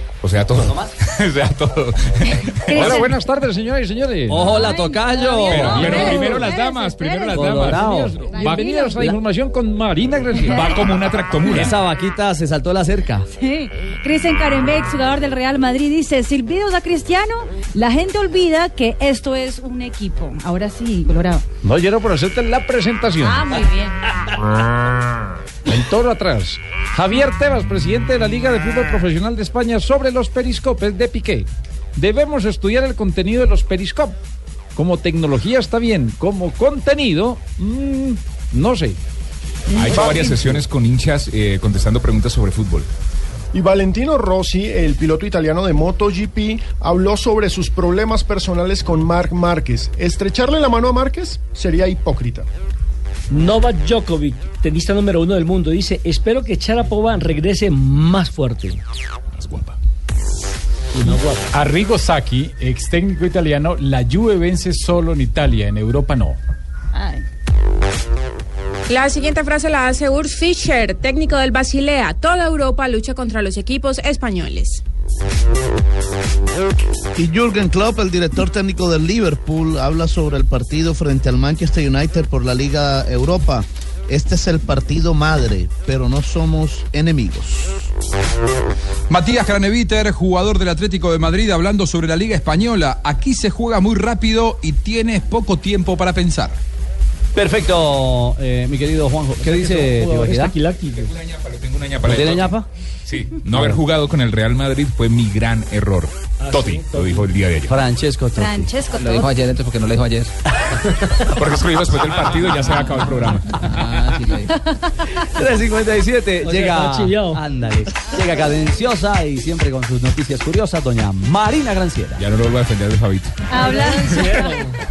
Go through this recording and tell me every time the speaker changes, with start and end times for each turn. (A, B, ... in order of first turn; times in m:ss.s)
0:00.2-0:02.9 A
0:00.6-0:00.9 B
0:02.7-0:03.2 C
0:02.7-0:04.5 D
0:04.3-0:06.2 B
0:04.4-0:07.7 C
0:05.5-0:08.0 A
0:06.1-0:06.4 D
0:07.3-0:09.2 B
0:07.4-0:10.7 D
0:08.2-0:09.0 C
0:10.3-0:10.8 C
0:10.5-0:11.7 A
0:11.5-0:13.3 B
0:13.4-0:21.4 C
0:21.6-0:23.5 D
0:23.2-0:24.0 C
0:25.6-0:34.2 D
0:34.8-0:39.0 D
0:39.8-0:42.9 A
0:40.0-0:40.6 E
0:43.5-0:52.5 E
0:53.3-0:58.8 F
1:00.9-1:01.5 F
1:01.5-1:06.4 G
1:06.9-1:07.2 C
1:08.9-1:14.8 H
1:17.2-1:27.8 I
1:29.1-1:36.6 J
1:37.4-1:40.5 B
1:39.4-1:41.1 F
1:40.9-1:42.5 A
1:42.0-1:42.7 B
1:43.1-1:47.7 A
1:46.4-1:47.3 F
1:47.7-1:48.7 B
1:48.4-1:49.3 C
1:49.0-1:50.3 K
1:51.3-1:53.7 A
1:53.7-1:54.5 K
1:54.5-1:54.8 C
1:55.4-2:02.2 B
1:56.4-1:57.4 F
2:02.2-2:03.6 A
2:03.5-2:04.6 C
2:03.6-2:04.7 F